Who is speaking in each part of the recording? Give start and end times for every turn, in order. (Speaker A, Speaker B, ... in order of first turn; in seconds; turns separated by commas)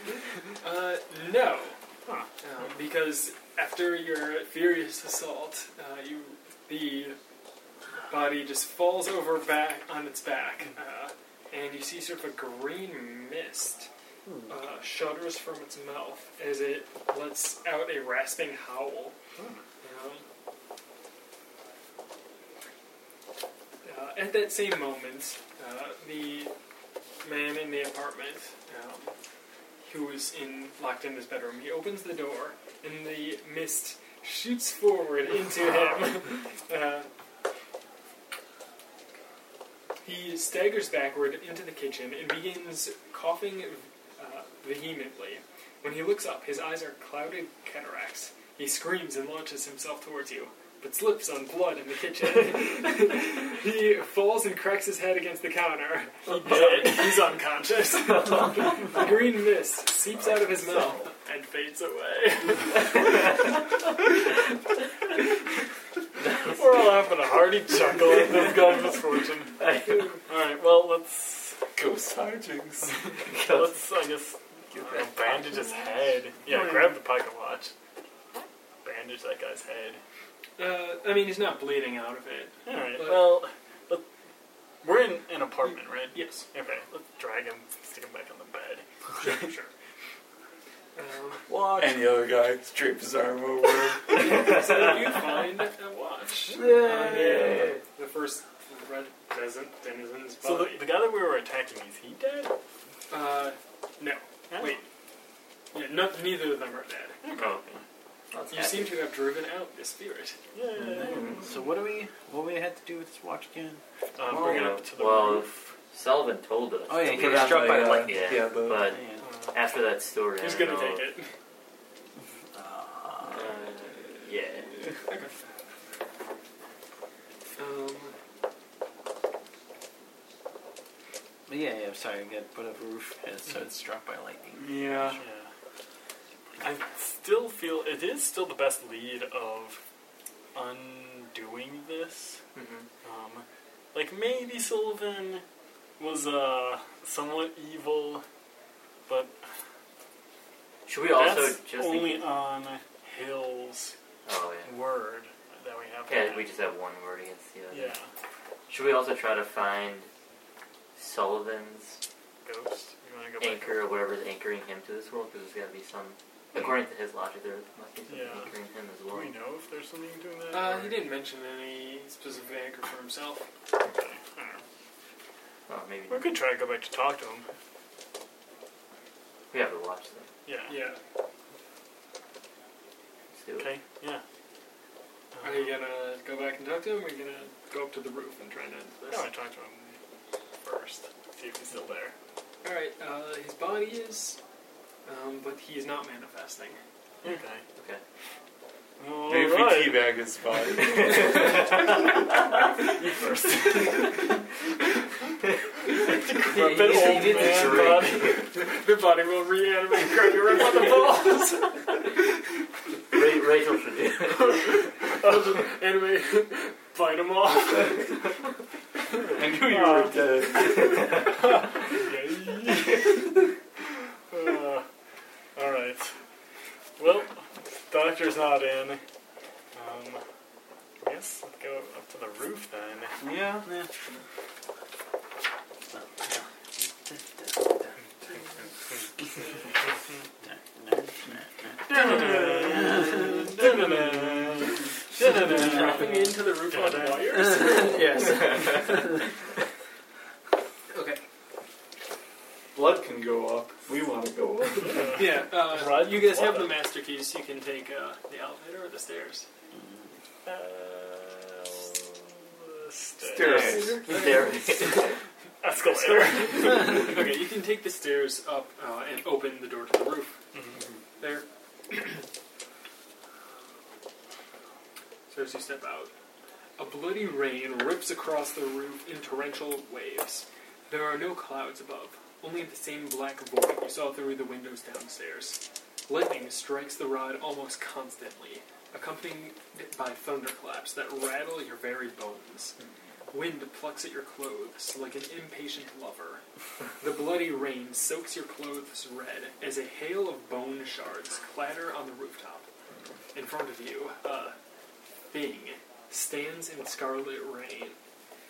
Speaker A: 0.6-1.8, Speaker A: 2.4-7.2, Speaker A: 8.1-13.9, Speaker A: 14.5-19.1, Speaker B: 19.4-19.6, Speaker A: 19.8-20.2, Speaker A: 23.8-26.5, Speaker A: 27.2-29.1, Speaker A: 29.9-37.1, Speaker A: 40.0-63.2, Speaker B: 56.4-57.3, Speaker B: 66.5-69.7, Speaker C: 69.6-70.2, Speaker B: 70.3-71.6, Speaker D: 71.8-73.0, Speaker C: 73.3-73.6, Speaker B: 73.3-77.7, Speaker D: 74.7-75.4, Speaker B: 78.8-80.0, Speaker A: 80.6-83.3, Speaker B: 82.7-84.0, Speaker B: 84.8-89.5, Speaker A: 85.7-86.5, Speaker A: 89.2-89.7, Speaker A: 91.0-91.4, Speaker B: 91.5-92.2, Speaker D: 91.8-94.7, Speaker A: 94.2-100.8, Speaker E: 96.6-97.6, Speaker D: 96.9-97.7, Speaker C: 97.1-97.8, Speaker B: 100.4-102.5, Speaker A: 103.1-104.8, Speaker B: 104.5-104.8, Speaker A: 105.7-107.2, Speaker B: 107.2-107.8, Speaker C: 107.3-107.7, Speaker C: 108.3-109.0, Speaker A: 108.5-110.4, Speaker B: 110.5-111.5, Speaker D: 110.8-111.4, Speaker E: 111.4-113.8, Speaker B: 114.2-115.6, Speaker C: 114.2-121.0, Speaker D: 114.3-114.8, Speaker E: 116.9-118.3, Speaker D: 117.0-119.0, Speaker E: 118.9-119.2, Speaker B: 119.2-119.5, Speaker A: 120.4-121.3, Speaker E: 122.5-123.5, Speaker C: 123.2-124.8, Speaker A: 127.6-128.1, Speaker E: 131.5-135.2, Speaker B: 134.6-135.5, Speaker B: 136.6-139.8, Speaker B: 140.6-142.4, Speaker C: 142.6-142.9, Speaker B: 143.0-145.4, Speaker B: 146.0-148.2, Speaker B: 149.1-149.3, Speaker C: 150.9-152.4, Speaker B: 151.1-153.9, Speaker C: 154.3-154.7, Speaker B: 154.7-156.5, Speaker C: 156.1-157.9, Speaker B: 157.7-158.1, Speaker C: 158.7-160.1, Speaker C: 161.0-162.0, Speaker B: 162.4-163.9, Speaker C: 163.4-169.3, Speaker B: 168.1-168.5, Speaker B: 169.1-171.1, Speaker A: 170.5-173.5, Speaker B: 173.8-174.6, Speaker C: 175.7-176.4, Speaker B: 176.1-177.5, Speaker C: 179.5-180.3, Speaker B: 180.5-180.8, Speaker A: 180.7-181.0, Speaker C: 183.3-183.7, Speaker B: 183.6-184.2, Speaker B: 185.3-185.8, Speaker A: 185.4-189.3, Speaker B: 189.1-190.0, Speaker B: 190.6-192.1, Speaker A: 192.6-194.4, Speaker A: 195.1-196.8, Speaker B: 197.2-197.6, Speaker C: 197.8-198.0, Speaker B: 199.0-200.1, Speaker D: 199.3-201.7, Speaker C: 201.0-201.6, Speaker B: 202.9-204.2, Speaker B: 206.0-208.5, Speaker C: 206.4-208.6, Speaker A: 208.6-211.9, Speaker C: 213.1-214.8, Speaker B: 215.2-215.7, Speaker A: 215.2-218.1, Speaker B: 219.3-220.2, Speaker D: 219.3-221.3, Speaker B: 221.3-223.3, Speaker B: 224.3-224.9, Speaker B: 225.6-226.1, Speaker B: 227.0-229.0, Speaker B: 229.8-230.2, Speaker B: 231.0-233.2, Speaker D: 233.2-233.7, Speaker E: 235.9-238.0, Speaker B: 238.7-239.1, Speaker A: 239.3-239.7, Speaker E: 240.4-243.5, Speaker B: 241.9-247.9, Speaker D: 241.9-244.7, Speaker E: 245.4-246.1, Speaker A: 245.5-248.6, Speaker E: 247.6-248.9, Speaker A: 250.9-251.2, Speaker D: 252.7-255.2, Speaker B: 254.8-256.9, Speaker A: 255.2-259.5, Speaker B: 260.4-263.9, Speaker D: 263.2-264.1, Speaker C: 263.4-265.2, Speaker A: 264.1-265.1, Speaker B: 265.6-267.2, Speaker A: 265.8-270.4, Speaker A: 271.2-272.2, Speaker A: 275.3-276.1, Speaker A: 276.8-292.8, Speaker A: 293.3-296.4, Speaker A: 297.0-302.6, Speaker A: 303.3-304.6, Speaker A: 305.3-308.0